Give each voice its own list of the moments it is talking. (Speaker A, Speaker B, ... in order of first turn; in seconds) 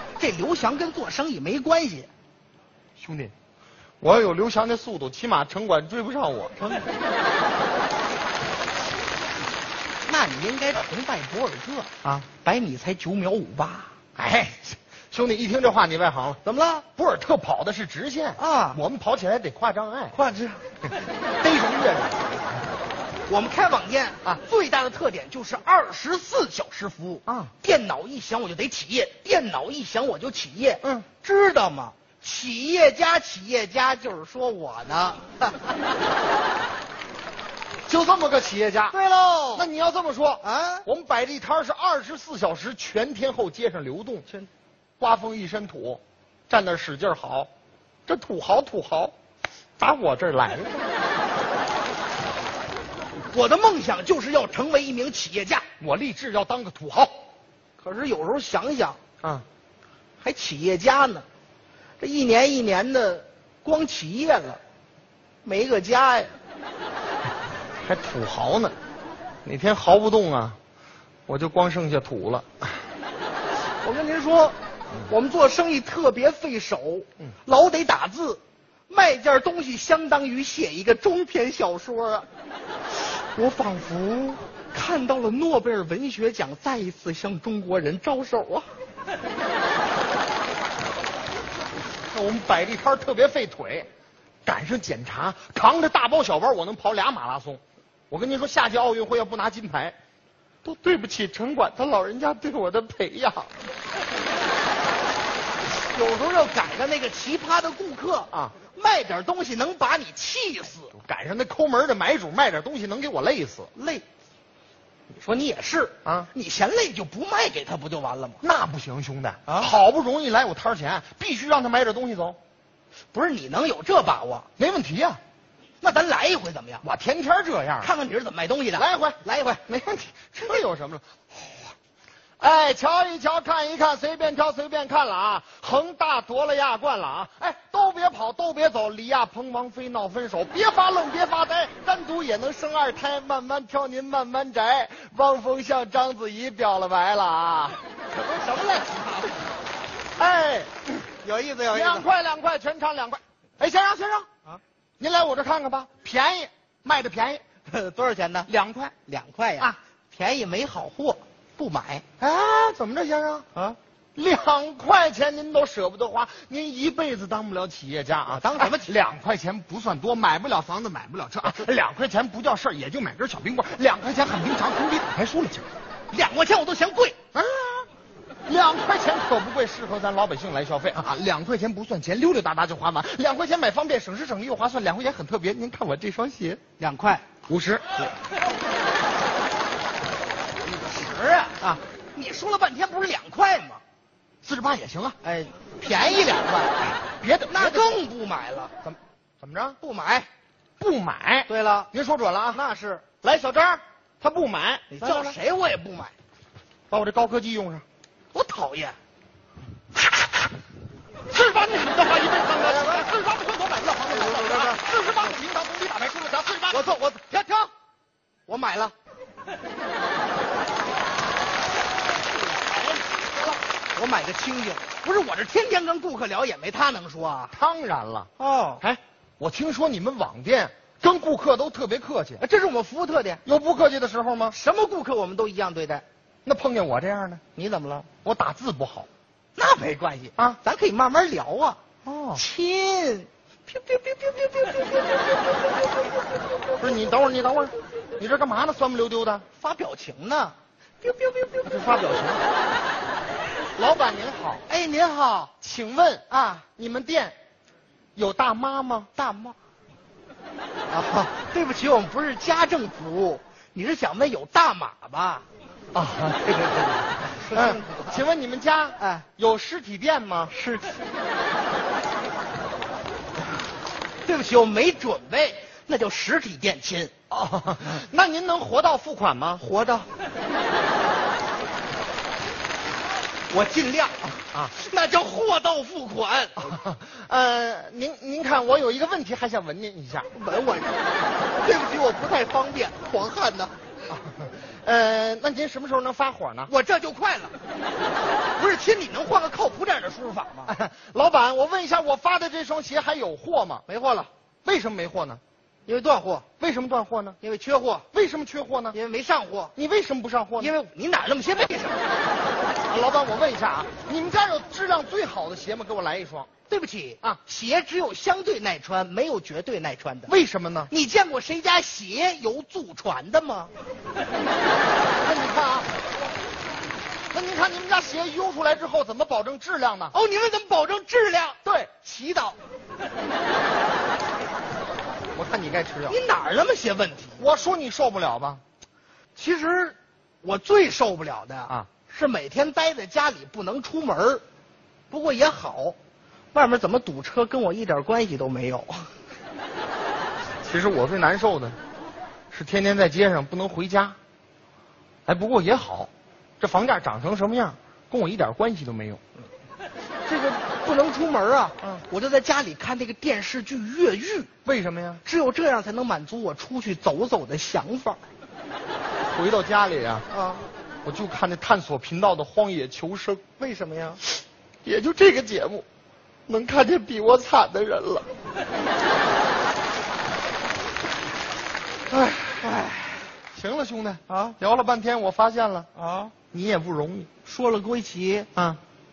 Speaker A: 0.2-2.1, 6.6-6.8, 10.0-13.9, 16.4-16.9, 18.4-18.8, 20.1-20.6, 23.3-35.6, 38.9-39.7, 40.4-40.8, 53.3-55.6, 57.8-59.0, 60.2-61.2, 62.0-64.6, 65.4-66.4, 73.8-82.2, 83.3-88.7, 105.9-110.9, 113.7-114.0, 115.1-118.4, 119.5-119.7, 123.1-124.5, 125.8-126.8, 127.8-129.6, 148.1-149.4, 151.2-152.1, 157.6-158.5, 159.1-162.0, 168.3-168.9, 176.1-177.2, 186.8-187.2, 190.6-193.8, 195.2-198.7, 199.8-200.3, 201.5-201.9, 202.5-203.1, 204.9-206.1, 208.3-208.9, 212.7-213.1, 214.1-215.4, 216.7-217.7, 218.5-218.9, 222.7-223.0, 223.9-227.5, 228.4-228.8, 232.4-233.4, 234.5-236.0, 237.5-238.1, 239.6-246.2, 249.6-251.7, 254.7-255.5, 256.3-256.6, 259.1-259.6, 260.9-265.4, 267.3-268.2, 269.0-269.2, 270.5-271.0, 274.2-277.1, 279.6-280.1, 283.5-286.7, 290.3-291.0, 291.5-293.7, 296.7-297.5, 298.5-300.7, 303.9-304.3, 305.9-306.5, 307.4-308.1, 308.9-309.7, 310.6-312.0, 316.7-320.3, 320.9-323.7, 330.1-332.6, 336.1-337.4, 339.3-344.4, 345.1-346.0, 346.5-349.1, 360.2-364.5, 365.2-368.2, 370.3-370.6, 373.6-374.2, 382.1-383.3, 384.3-384.6, 385.9-386.3, 387.4-388.5
Speaker B: 3.0-3.3, 4.0-6.5, 14.2-16.4, 16.9-20.2, 20.8-22.6, 27.2-27.5, 30.8-31.1, 37.9-39.0, 39.5-44.2, 45.0-47.5, 48.1-49.1, 49.8-50.9, 55.8-57.1, 67.8-68.7, 69.4-70.6, 71.3-72.8, 92.1-93.9, 94.4-100.0, 100.6-103.5, 108.3-108.5, 110.9-113.7, 116.0-116.3, 118.4-122.4, 124.6-125.2, 126.8-127.9, 128.8-131.7, 132.4-147.8, 150.2-151.1, 151.7-154.3, 155.0-157.4, 158.4-158.9, 162.2-163.5, 164.2-175.7, 177.3-177.9, 178.4-186.6, 187.5-187.8, 194.4-195.2, 197.2-198.0, 198.8-199.8, 200.8-202.6, 203.2-205.4, 206.9-207.8, 211.3-216.9, 227.5-228.3, 228.8-232.4, 233.4-234.6, 236.4-237.4, 238.2-239.1, 246.8-249.4, 251.6-252.4, 253.7-254.6, 255.6-257.4, 258.1-259.1, 265.9-270.5, 277.3-279.6, 286.6-290.3, 294.1-296.7, 300.7-303.8, 304.6-305.4, 306.6-307.4, 308.1-309.0, 309.8-310.7, 312.8-316.5, 320.3-320.9, 325.2-325.9, 327.3-330.1, 331.6-331.9, 335.3-336.2, 337.4-338.6, 350.6-351.8, 352.5-354.2, 355.2-359.2, 364.6-365.2, 369.2-370.3, 371.0-373.4, 374.8-375.8, 376.5-378.2, 383.5-385.9, 386.5-387.3, 388.5-388.8